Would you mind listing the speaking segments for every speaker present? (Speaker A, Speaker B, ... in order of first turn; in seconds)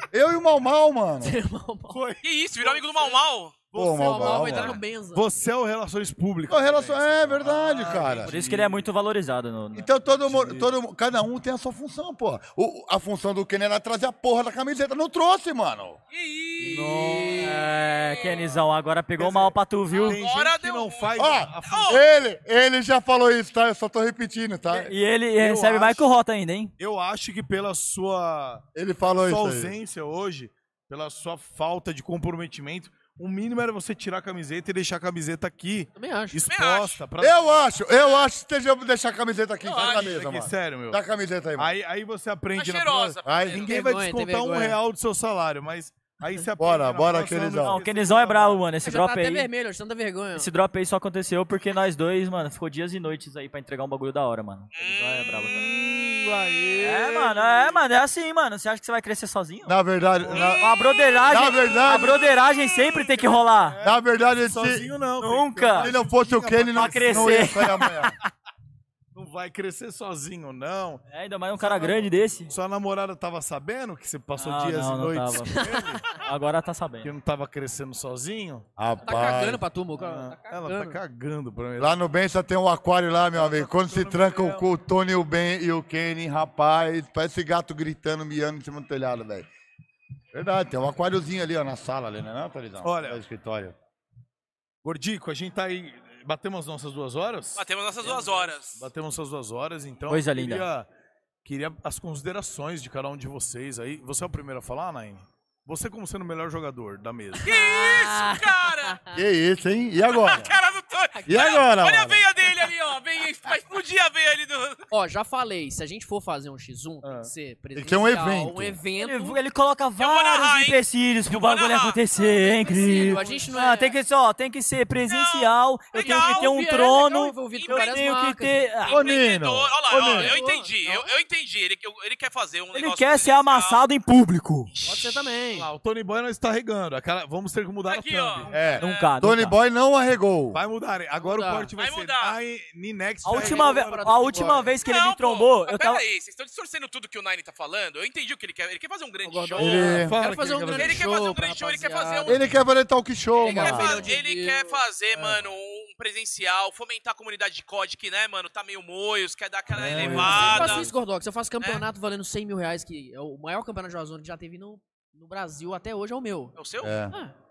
Speaker A: 0.1-1.4, 3.7-4.8, 6.5-8.3, 9.7-16.0, 21.2-24.9, 28.7-29.7, 37.2-41.7, 43.2-43.7, 46.6-47.8, 59.6-60.7, 61.2-62.2, 63.8-64.9, 65.8-68.2, 78.8-79.6, 81.8-89.5, 90.3-93.7, 109.1-110.5, 111.3-112.2, 117.8-118.8, 128.9-130.4, 138.5-140.6, 149.6-150.2, 152.2-154.1, 159.7-160.8, 166.8-167.1
Speaker B: 1.2-2.0, 3.9-5.3, 16.6-17.6, 36.0-36.4, 43.6-44.8, 48.8-50.5, 75.6-75.9, 79.0-81.0, 107.4-109.2, 111.1-111.6, 114.9-119.4, 122.2-123.9, 125.9-129.0, 129.9-131.1, 134.8-135.7, 141.2-141.7, 143.3-144.8, 149.2-152.4, 153.4-154.8, 160.0-166.5, 167.1-167.3
Speaker C: 1.9-8.8, 10.2-10.7, 16.7-17.4, 19.2-22.0, 25.3-26.1, 26.8-37.6, 39.8-41.0, 41.6-48.7, 55.5-57.5, 60.2-60.7, 61.8-67.7, 69.1-71.0, 71.6-76.2, 77.0-78.7, 80.0-81.9, 83.3-84.7, 92.8-93.2, 94.8-100.9, 101.4-107.5, 117.0-117.3, 135.5-138.5, 140.5-144.7, 149.9-151.2, 159.9-160.5
Speaker D: 2.2-3.6, 16.1-17.4, 18.1-18.4, 19.9-22.0, 36.4-37.0, 39.6-40.1, 42.5-43.6, 54.7-55.5, 97.6-98.8, 107.4-109.0, 110.1-114.9, 120.0-122.0, 125.1-126.8, 127.5-128.0, 128.9-133.8, 134.7-135.2, 137.9-139.1, 141.8-142.4, 144.8-150.0, 150.7-152.4, 153.4-160.9, 166.6-167.0
Speaker E: 8.2-9.9, 16.7-20.2, 24.7-26.7, 47.6-49.5, 50.3-55.7, 56.8-59.8, 60.3-63.8, 65.2-65.9, 66.7-68.1, 71.1-72.5, 74.3-77.1, 100.1-100.7, 119.0-129.0, 132.7-134.7, 138.8-139.6, 143.2-146.0